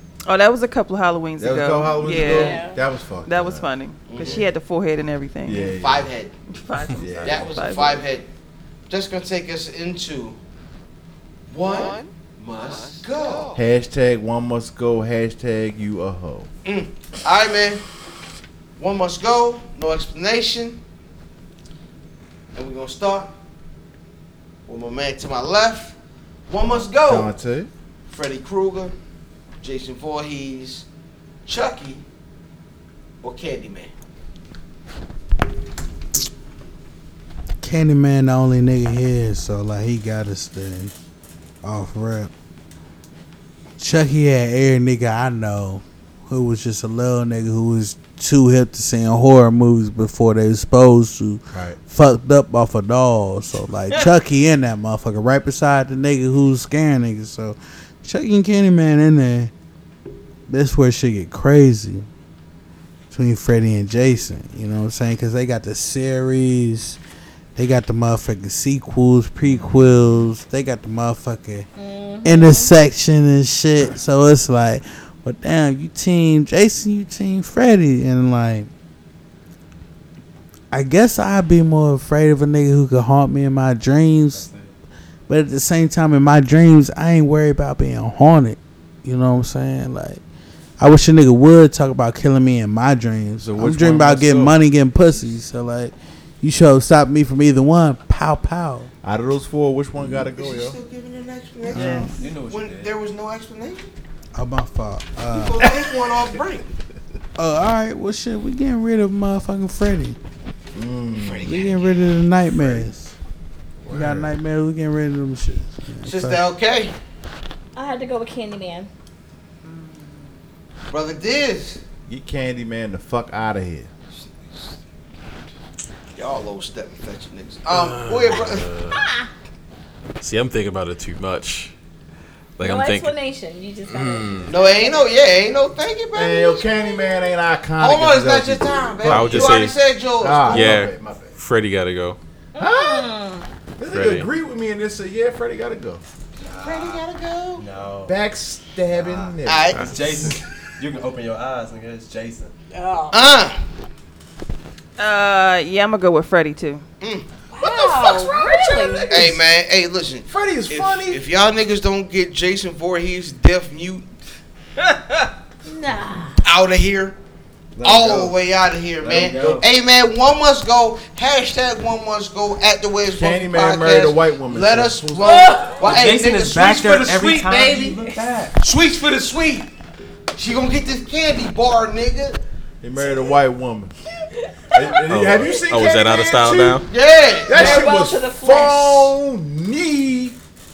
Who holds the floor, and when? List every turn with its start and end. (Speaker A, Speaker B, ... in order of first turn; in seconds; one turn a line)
Speaker A: 0.2-2.6
Speaker B: 1.4-3.7
Speaker C: 2.1-2.8
Speaker A: 3.2-5.7
Speaker D: 4.1-4.5
Speaker B: 4.2-4.5
Speaker B: 5.4-6.1
Speaker D: 5.5-6.3
Speaker A: 6.5-8.0
Speaker B: 7.0-7.6
Speaker D: 7.2-8.3
Speaker D: 8.9-10.4
Speaker D: 11.5-13.6
Speaker B: 13.5-16.5
Speaker D: 16.6-17.8
Speaker D: 18.8-20.8
Speaker D: 22.5-23.3
Speaker D: 24.6-25.9
Speaker D: 26.5-27.3
Speaker B: 26.6-27.7
Speaker D: 28.1-28.9
Speaker D: 29.6-30.8
Speaker D: 31.4-32.0
Speaker D: 33.2-33.9
Speaker E: 37.6-40.9
Speaker E: 41.6-42.3
Speaker E: 43.8-59.5
Speaker B: 51.5-51.8
Speaker E: 60.5-62.0
Speaker E: 63.1-67.0
Speaker E: 67.5-71.7
Speaker B: 69.4-70.2
Speaker C: 71.8-72.7
Speaker E: 72.2-78.7
Speaker E: 80.7-84.5
Speaker F: 84.3-84.7
Speaker E: 85.3-90.2
Speaker E: 90.8-98.9
Speaker B: 93.4-94.5
Speaker B: 99.0-100.8
Speaker D: 100.0-103.9
Speaker F: 101.7-102.9
Speaker B: 101.7-102.1
Speaker E: 104.3-105.7
Speaker D: 105.3-106.7
Speaker E: 107.4-110.2
Speaker B: 110.7-111.6
Speaker D: 111.1-111.8
Speaker E: 111.4-113.1
Speaker B: 112.5-112.9
Speaker B: 113.8-114.3
Speaker E: 113.9-116.4
Speaker D: 116.0-116.9
Speaker C: 117.7-118.9
Speaker A: 119.6-120.3
Speaker D: 120.9-121.8
Speaker B: 122.1-123.9
Speaker D: 124.1-124.7
Speaker D: 126.1-128.7
Speaker G: 127.7-129.0
Speaker C: 128.9-129.3
Speaker G: 130.2-131.7
Speaker G: 132.6-133.1
Speaker C: 132.6-135.1
Speaker G: 133.9-134.5
Speaker D: 134.5-136.7
Speaker B: 136.1-141.3
Speaker C: 136.7-137.3
Speaker D: 137.8-140.8
Speaker G: 139.1-139.7
Speaker G: 140.5-142.2
Speaker C: 142.5-143.5
Speaker B: 142.6-143.1
Speaker B: 143.8-146.0
Speaker G: 143.9-144.3
Speaker F: 146.4-147.0
Speaker D: 146.6-147.7
Speaker F: 147.6-148.2
Speaker B: 148.1-149.8
Speaker F: 148.9-152.5
Speaker D: 149.4-150.3
Speaker C: 152.7-153.2
Speaker D: 153.1-153.6
Speaker A: 155.0-156.8
Speaker D: 157.0-157.3
Speaker C: 157.5-159.1
Speaker B: 157.6-159.4
Speaker D: 159.1-164.1
Speaker B: 160.3-161.2
Speaker C: 165.7-166.4
Speaker D: 166.4-167.2
Speaker B: 167.8-168.2
Speaker D: 167.8-178.0
Speaker F: 167.9-168.3
Speaker F: 169.0-169.7
Speaker B: 173.1-175.6
Speaker C: 175.2-175.8
Speaker F: 175.8-178.6
Speaker D: 178.6-179.7
Speaker D: 180.3-182.4
Speaker B: 182.8-183.9
Speaker C: 184.3-185.0
Speaker B: 184.7-186.9
Speaker G: 185.1-186.9
Speaker D: 186.9-187.8
Speaker B: 187.5-190.3
Speaker C: 187.5-189.1